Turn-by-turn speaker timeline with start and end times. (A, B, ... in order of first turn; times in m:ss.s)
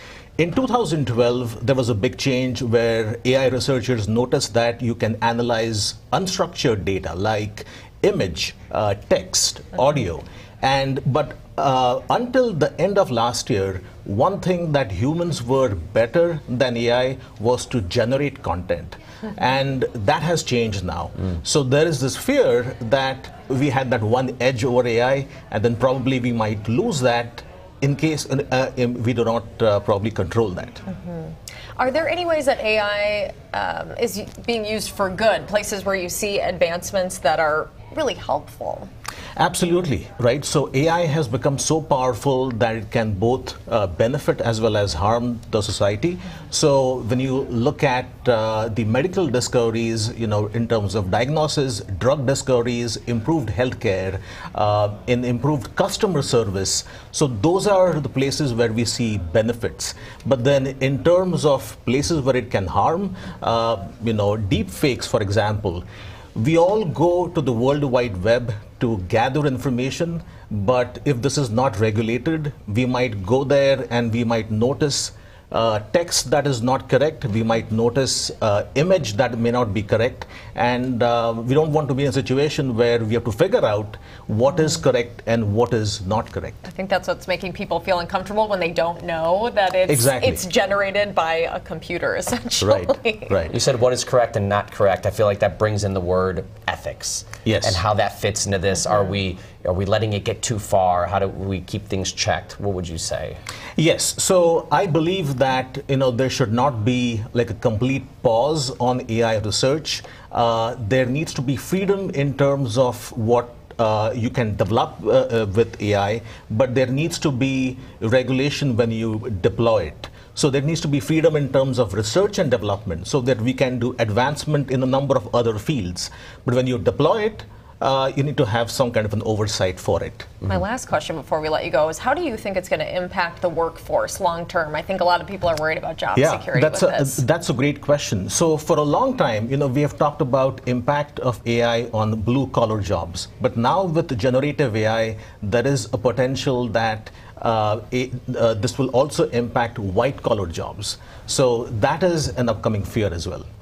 0:00.4-0:30.8 A
0:30.9-0:38.9 B
0:39.4-1:05.8 A
1:06.4-1:26.7 A
1:26.7-1:33.4 B
1:29.9-1:30.4 A
1:32.6-1:33.5 A
1:33.5-1:43.4 C
1:37.4-1:37.8 A
1:43.8-2:10.4 A
2:10.4-2:17.2 B
2:16.2-2:33.5 A